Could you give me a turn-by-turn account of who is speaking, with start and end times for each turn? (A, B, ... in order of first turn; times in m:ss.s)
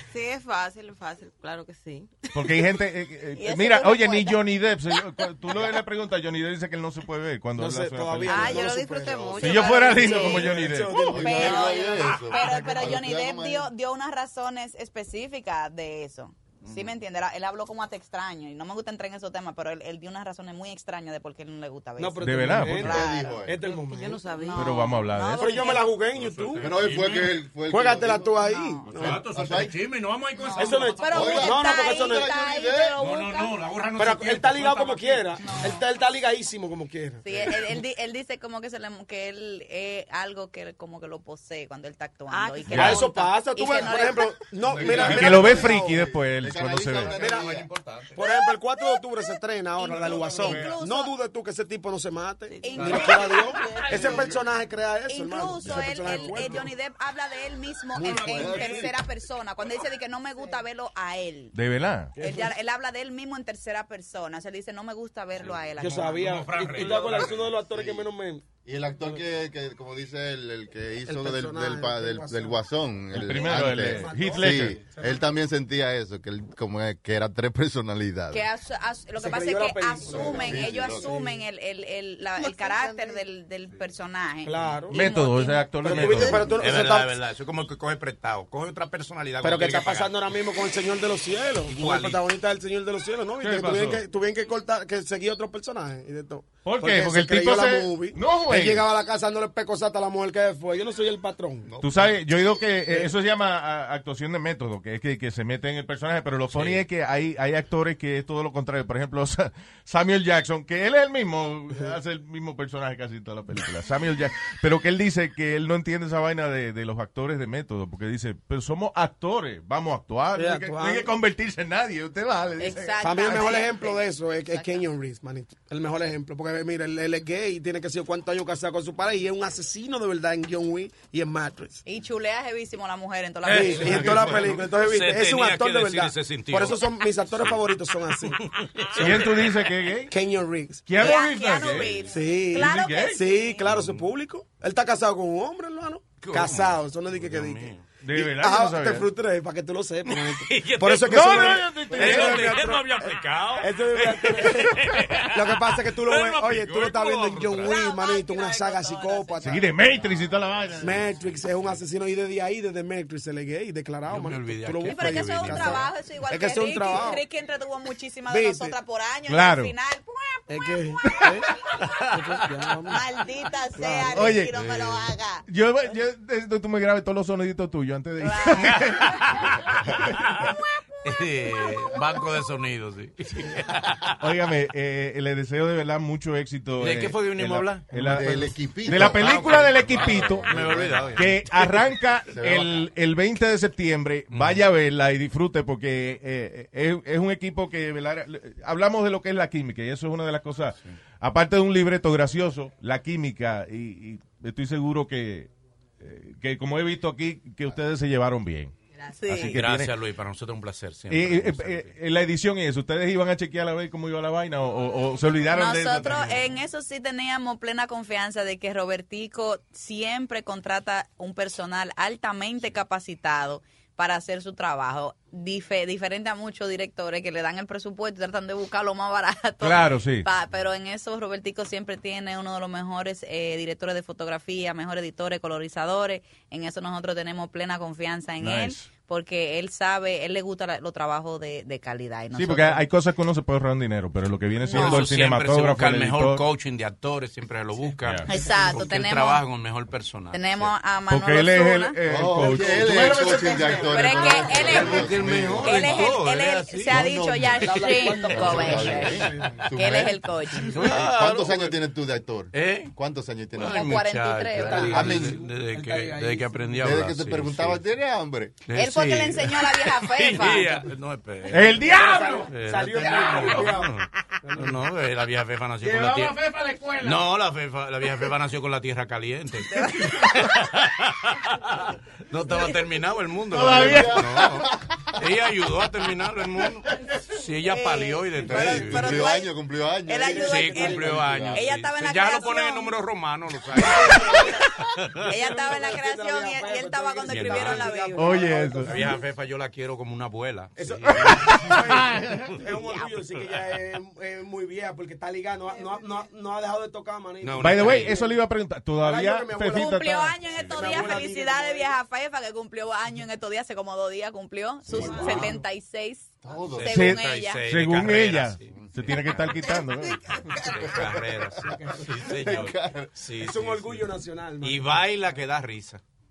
0:00.1-0:02.3 A
0:02.3-0:08.7 B
0:03.4-0:04.4 C
0:07.6-0:12.9 D
0:08.2-0:10.5 A
0:09.4-0:11.4 B
0:09.4-0:10.5 C
0:10.9-0:13.7 E
0:11.2-0:23.4 C
0:16.6-0:16.9 F
0:22.0-0:24.2 D
0:22.2-0:23.0 B
0:22.7-0:23.6 E
0:23.6-0:24.9 A
0:24.3-0:25.9 C
0:24.5-0:25.5 B
0:25.3-0:26.7 D
0:26.1-0:27.4 F
0:26.6-0:29.8 E
0:27.7-0:29.3 D
0:28.4-0:28.9 C
0:28.8-0:31.4 F
0:30.3-0:33.6 C
0:30.6-0:32.3 D
0:31.1-0:33.0 E
0:33.0-0:35.5 F
0:34.0-0:37.6 D
0:35.4-0:35.8 C
0:37.2-0:44.3 C
0:42.3-0:43.9 A
0:42.7-0:43.0 B
0:42.7-0:46.0 D
0:44.6-0:45.4 F
0:44.7-0:47.7 E
0:44.8-0:47.2 B
0:47.0-0:48.2 F
0:47.2-0:47.5 D
0:48.1-0:56.7 D
0:48.2-0:51.1 C
0:49.9-0:50.7 F
0:52.5-0:54.2 A
0:52.6-0:54.3 C
0:52.8-0:53.8 F
0:55.1-1:01.6 C
0:55.6-0:55.9 B
0:57.9-0:59.0 E
0:58.1-0:58.7 F
1:01.5-1:02.1 B
1:02.2-1:02.5 D
1:02.2-1:06.4 C
1:05.4-1:07.6 F
1:05.8-1:08.4 D
1:06.8-1:08.1 E
1:08.6-1:18.5 E
1:11.0-1:12.6 D
1:13.1-1:14.8 B
1:13.2-1:15.3 D
1:18.3-1:25.8 C
1:19.2-1:21.4 D
1:20.0-1:21.2 E
1:22.4-1:23.2 A
1:24.4-1:25.1 D
1:24.9-1:26.5 B
1:25.8-1:27.2 D
1:26.2-1:30.2 F
1:29.4-1:41.7 D
1:31.7-1:32.2 F
1:33.4-1:34.0 B
1:36.6-1:38.9 B
1:41.6-1:42.1 E
1:41.8-2:03.6 B
1:46.5-1:46.8 F
2:00.3-2:01.1 D
2:02.6-2:04.8 C
2:03.0-2:11.8 D
2:11.8-2:14.4 C
2:13.4-2:19.5 F
2:13.4-2:19.5 D
2:18.9-2:20.2 B
2:20.1-2:21.1 D
2:20.9-2:22.0 B
2:21.0-2:23.7 C
2:21.6-2:21.9 F
2:22.1-2:39.7 D
2:22.5-2:23.2 B
2:23.6-2:24.1 F
2:26.2-2:27.8 F
2:28.0-2:29.1 B
2:30.0-2:37.8 F
2:31.0-2:32.8 B
2:37.6-2:39.7 C
2:39.4-2:41.1 B
2:40.8-2:47.2 D
2:44.1-2:45.8 F
2:44.8-2:51.1 C
2:48.3-2:48.8 D
2:49.3-2:49.7 B
2:50.5-2:51.5 D
2:51.0-2:51.4 B
2:52.1-2:53.0 D
2:52.1-2:52.6 F
2:52.9-2:55.5 C
2:53.7-2:54.4 D
2:54.1-2:54.6 B
2:54.5-2:55.0 F
2:55.5-3:00.6 B
2:58.2-2:59.2 C
2:58.5-3:00.1 F
3:00.4-3:01.7 C
3:01.0-3:04.2 F
3:04.2-3:28.7 B
3:06.8-3:11.9 F
3:07.9-3:11.4 E
3:12.3-3:12.8 E
3:14.3-3:14.6 F
3:29.1-3:29.6 C
3:29.3-3:29.9 B
3:29.3-3:31.9 F
3:31.1-3:36.4 B
3:35.5-4:02.8 C
3:49.6-3:50.3 B
3:58.4-3:58.9 B
4:02.3-4:06.4 B
4:04.6-4:05.0 C
4:04.7-4:10.7 F
4:08.0-4:08.3 B
4:08.3-4:09.4 C
4:10.3-4:12.0 C
4:11.1-4:13.9 B
4:12.0-4:16.2 E
4:12.4-4:13.6 F
4:12.4-4:15.2 D
4:13.8-4:20.8 C
4:14.4-4:17.1 F
4:16.9-4:24.0 E
4:17.6-4:19.7 D
4:20.5-4:21.8 F
4:22.5-4:22.9 F
4:23.5-4:27.8 F
4:23.6-4:25.1 C
4:24.5-4:27.0 D
4:24.7-4:25.5 E
4:26.8-4:28.6 E
4:28.6-4:49.3 F
4:28.7-4:30.8 C
4:30.4-4:30.7 D
4:31.5-4:32.5 B
4:31.8-4:34.8 D
4:35.8-4:37.2 B
4:39.7-4:40.4 C
4:43.5-4:44.5 B
4:43.5-4:45.0 E
4:47.7-4:49.5 C
4:48.4-4:51.6 E
4:50.0-4:52.9 C
4:50.2-4:51.4 D
4:50.3-4:55.2 F
4:53.7-4:59.2 D
4:53.8-4:54.6 C
4:55.2-4:58.6 C
4:57.2-4:57.9 F
4:58.2-4:59.1 B
4:58.8-5:01.7 F
5:00.8-5:08.4 D
5:01.2-5:02.5 B
5:02.8-5:03.1 C
5:07.4-5:08.2 F
5:07.6-5:10.4 B
5:09.0-5:11.9 D
5:09.7-5:17.6 C
5:10.6-5:11.0 F
5:14.9-5:15.3 E
5:14.9-5:15.6 D
5:15.2-5:15.5 F
5:16.4-5:17.0 E
5:16.7-5:19.6 F
5:16.8-5:20.4 B
5:18.7-5:19.6 E
5:20.5-5:26.0 F
5:20.8-5:21.7 E
5:21.6-5:22.6 D
5:22.2-5:23.2 E
5:23.3-5:25.0 D